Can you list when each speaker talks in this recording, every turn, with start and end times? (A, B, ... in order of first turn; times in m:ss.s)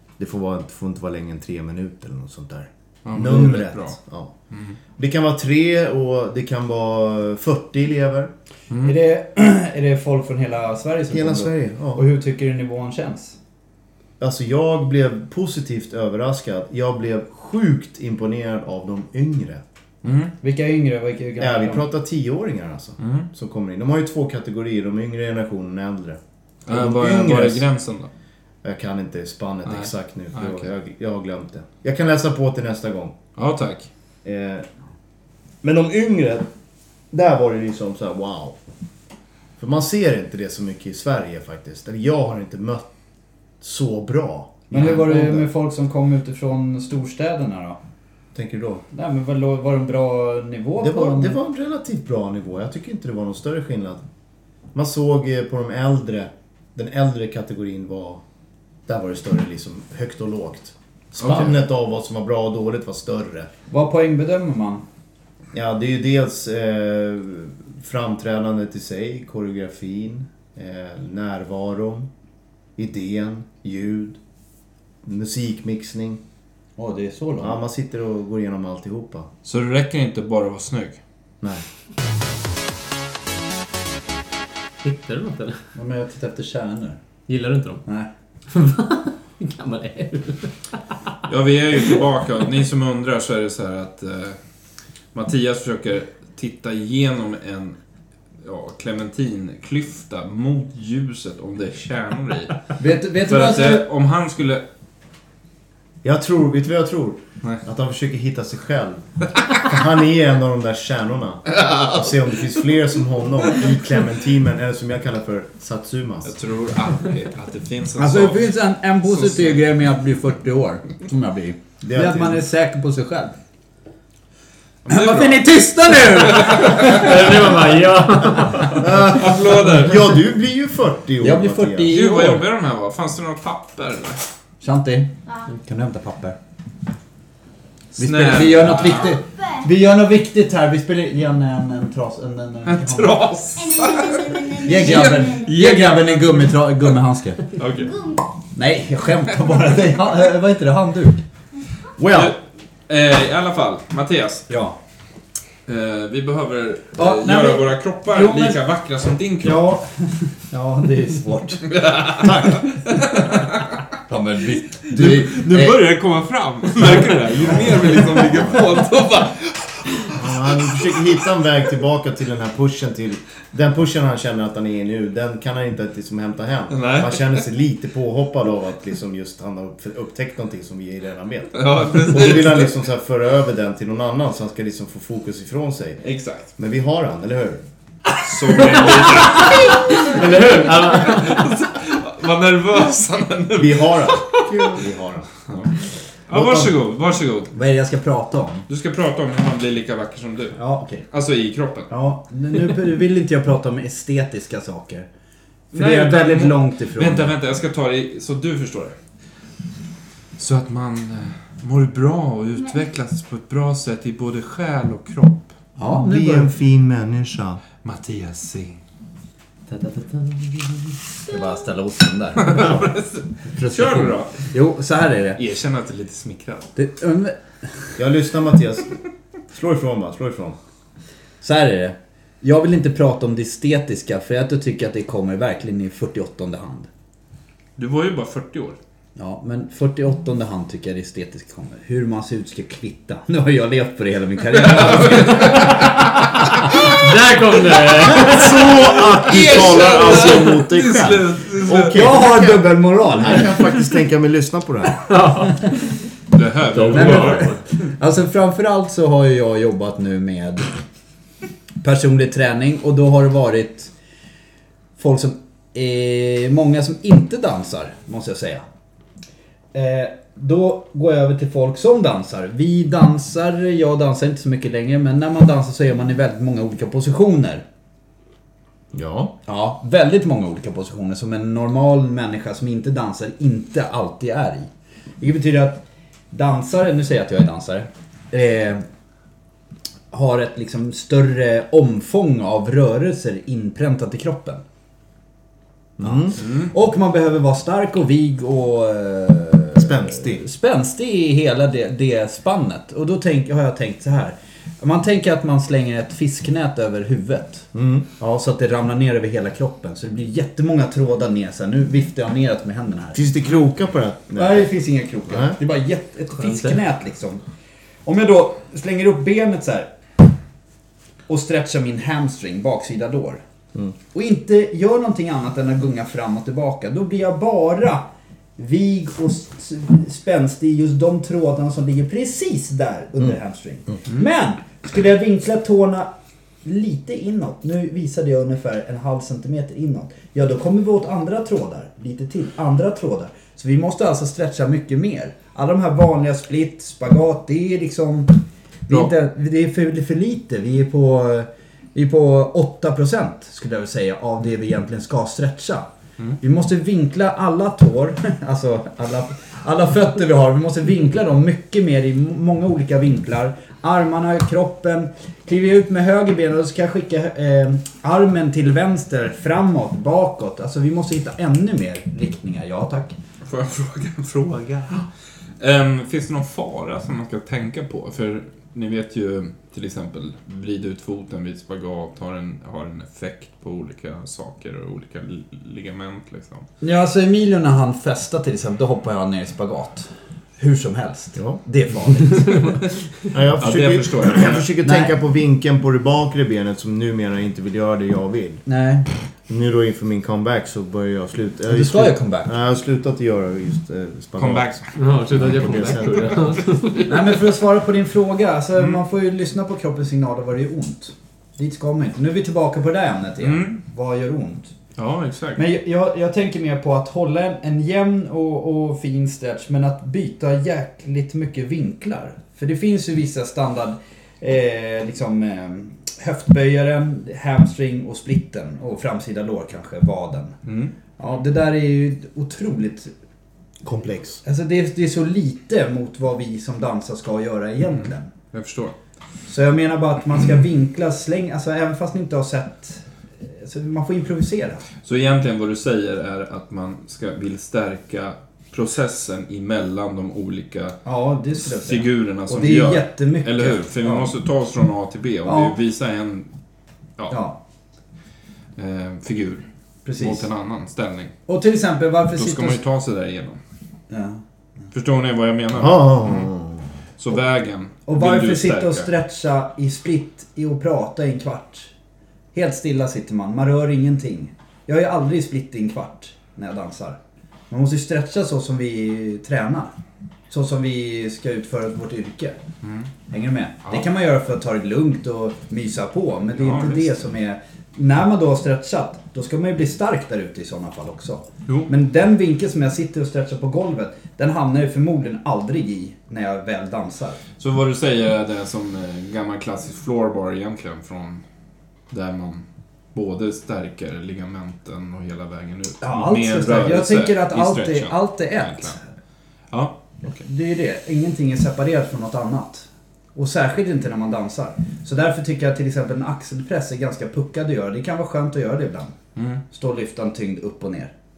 0:00.2-0:04.3 A
0:03.0-0:04.0 B
0:04.5-0:04.8 B
0:05.0-0:08.3 A
0:08.7-0:09.0 B
0:08.8-0:13.4 C
0:11.1-0:12.1 A
0:14.2-0:19.6 A
0:20.0-0:20.3 B
0:20.4-0:21.8 C
0:21.4-0:27.7 A
0:23.0-0:23.3 B
0:26.7-0:28.1 B
0:28.6-0:33.2 A
0:29.7-0:30.7 B
0:33.4-0:33.9 B
0:34.2-0:34.7 A
0:35.6-0:36.5 A
0:37.1-0:38.6 A
0:39.6-0:42.9 A
0:43.6-0:45.5 A
0:44.7-0:47.8 C
0:48.3-0:48.8 A
0:48.9-0:51.4 C
0:50.8-0:54.0 A
0:54.7-0:58.2 A
0:58.9-1:03.5 A
1:03.7-1:04.8 C
1:05.5-1:12.1 A
1:12.8-1:14.2 A
1:15.0-1:16.2 A
1:16.8-1:17.6 C
1:17.4-1:19.3 A
1:19.4-1:21.0 B
1:24.8-1:25.6 D
1:25.8-1:27.0 C
1:27.3-1:27.8 D
1:28.5-1:30.8 D
1:31.3-1:34.4 B
1:35.1-1:37.8 B
1:38.4-1:42.7 B
1:42.8-1:43.9 C
1:43.2-1:44.6 B
1:46.0-1:56.3 A
1:51.6-1:51.9 B
1:56.2-1:58.5 B
1:58.0-2:03.3 C
1:59.0-1:59.6 B
2:01.8-2:02.4 A
2:04.8-2:07.0 B
2:04.9-2:07.6 C
2:06.7-2:08.8 D
2:08.7-2:12.0 A
2:08.8-2:10.2 B
2:11.2-2:12.5 C
2:11.9-2:14.2 B
2:14.6-2:16.4 C
2:15.3-2:15.5 E
2:18.0-2:19.2 B
2:18.0-2:23.2 C
2:19.1-2:19.7 E
2:22.6-2:26.6 B
2:23.6-2:25.5 E
2:24.6-2:27.5 C
2:27.6-2:27.9 B
2:27.9-2:28.3 E
2:28.6-2:31.2 C
2:32.0-2:32.3 A
2:32.0-2:34.5 B
2:34.5-2:34.8 C
2:35.7-2:39.7 B
2:37.0-2:38.6 C
2:39.4-2:41.8 C
2:41.7-2:43.8 B
2:42.2-2:42.7 A
2:44.1-2:45.8 C
2:44.8-2:51.1 B
2:46.8-2:48.6 C
2:50.2-3:06.0 A
2:56.7-2:57.4 B
3:01.5-3:02.7 B
3:06.0-3:06.5 B
3:06.6-3:07.6 A
3:08.2-3:14.8 B
3:08.8-3:11.5 D
3:13.6-3:15.3 A
3:15.5-3:15.7 B
3:16.3-3:17.5 B
3:16.3-3:16.7 A
3:17.5-3:18.6 C
3:18.7-3:20.6 B
3:20.6-3:21.0 C
3:21.1-3:21.9 B
3:21.9-3:25.1 C
3:25.7-3:27.3 C
3:25.7-3:29.0 B
3:30.4-3:35.5 B
3:35.8-3:36.5 C
3:35.8-3:37.6 A
3:37.8-3:38.8 B
3:39.7-3:41.0 D
3:41.3-3:42.9 C
3:42.4-3:44.5 B
3:43.5-3:45.4 C
3:45.4-3:46.7 B
3:46.8-3:47.9 C
3:48.0-3:49.0 A
3:49.5-3:50.6 A
3:51.4-3:56.9 C
3:57.8-3:58.8 B
3:59.2-4:06.7 C
4:04.5-4:06.8 B
4:06.7-4:10.5 D
4:08.0-4:15.0 A
4:09.2-4:12.2 B
4:11.7-4:13.6 C
4:15.1-4:16.0 D
4:16.3-4:17.5 B
4:16.7-4:17.6 D
4:16.9-4:20.7 C
4:21.8-4:23.9 C
4:25.0-4:28.6 C
4:29.7-4:37.6 C
4:38.9-4:39.4 A
4:39.5-4:44.7 C
4:45.2-4:48.8 C
4:50.1-4:54.6 C
4:56.0-4:56.4 A
4:56.0-5:13.2 C
4:56.4-4:56.7 B
4:59.8-5:00.4 A
5:07.7-5:08.1 A
5:13.1-5:14.7 A
5:14.4-5:17.4 C
5:15.3-5:15.6 A
5:16.4-5:16.8 D
5:18.0-5:19.9 C
5:21.3-5:23.4 C
5:24.1-5:28.0 C
5:28.6-5:36.1 C
5:36.6-5:55.9 C
5:56.4-6:13.2 C
6:13.4-6:15.1 B
6:15.6-6:26.7 B
6:26.8-6:32.9 C
6:31.4-6:31.6 A
6:33.3-6:38.6 A
6:33.6-6:34.6 B
6:34.8-6:35.1 C
6:38.7-6:39.1 C
6:39.5-6:44.7 A
6:41.7-6:42.5 C
6:44.4-6:45.0 B
6:45.0-6:47.1 D
6:45.3-6:46.5 A
6:47.1-6:54.7 C
6:53.4-6:53.8 B
6:55.0-6:55.6 B
6:55.6-7:10.6 C
7:10.6-7:10.9 B
7:11.2-7:13.1 C
7:13.8-7:14.4 A
7:14.4-7:18.3 C
7:17.9-7:19.0 B
7:19.5-7:24.9 C
7:25.0-7:31.0 B
7:31.0-7:34.3 C
7:31.6-7:36.5 B
7:35.4-7:35.8 C
7:37.3-7:37.6 C
7:38.8-7:39.6 B
7:40.0-7:40.5 C
7:40.2-7:41.3 B
7:41.5-7:42.8 C
7:42.3-7:43.6 B
7:44.1-7:44.4 C
7:44.9-7:46.5 B
7:45.8-7:46.9 A
7:47.2-7:49.1 B
7:48.1-7:51.9 C
7:52.5-7:57.2 C
7:57.7-7:59.9 C
8:00.5-8:02.6 C
8:02.8-8:03.1 B
8:03.3-8:17.4 C
8:06.6-8:07.2 B
8:17.6-8:21.4 B
8:22.1-8:29.0 B
8:26.0-8:29.0 C
8:29.7-8:30.4 B
8:30.4-8:39.1 C
8:39.4-8:39.6 B
8:39.7-8:41.1 C